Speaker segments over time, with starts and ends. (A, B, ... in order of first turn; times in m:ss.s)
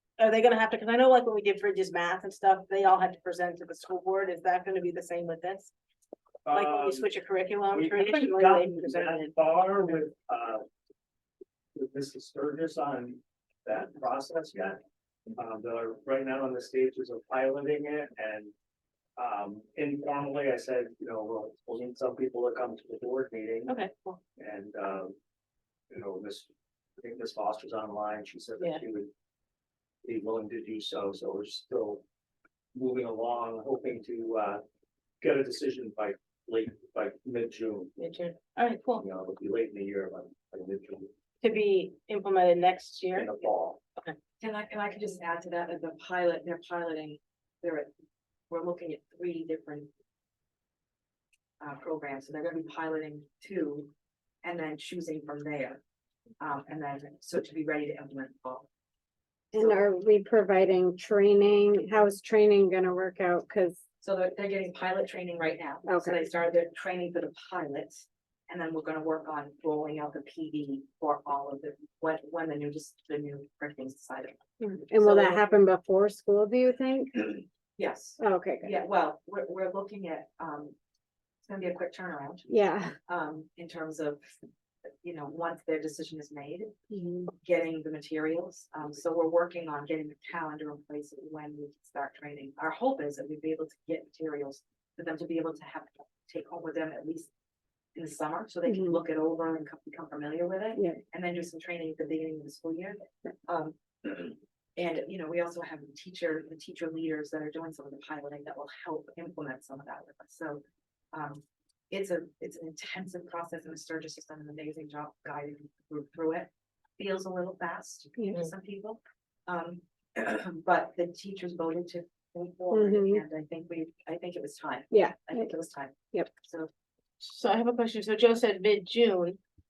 0:00.2-0:05.7 A
0:06.4-0:07.1 B
0:06.5-0:09.3 A
0:07.7-0:10.6 B
0:11.7-0:14.8 B
0:15.3-0:18.5 B
0:19.2-0:23.8 B
0:23.7-0:24.2 A
0:24.4-0:25.2 B
0:25.9-0:29.1 B
0:30.0-0:32.0 B
0:32.7-0:34.6 B
0:35.2-0:37.9 B
0:38.0-0:39.0 A
0:38.9-0:41.1 B
0:41.4-0:43.3 A
0:43.1-0:43.8 B
0:44.4-0:47.9 C
0:48.5-0:49.9 C
0:51.6-0:53.9 C
0:54.4-0:55.8 C
0:56.4-0:58.7 C
0:59.5-1:03.8 D
0:59.5-0:59.8 C
1:04.0-1:14.4 C
1:05.8-1:06.2 D
1:14.6-1:17.4 D
1:14.9-1:15.6 C
1:17.8-1:20.8 C
1:18.2-1:18.8 D
1:21.4-1:24.2 C
1:22.5-1:23.0 D
1:25.0-1:26.8 C
1:26.9-1:27.3 D
1:27.3-1:37.3 C
1:37.9-1:50.6 C
1:38.6-1:39.0 D
1:51.1-2:06.7 C
2:02.7-2:03.2 D
2:04.9-2:05.5 D
2:07.2-2:09.4 A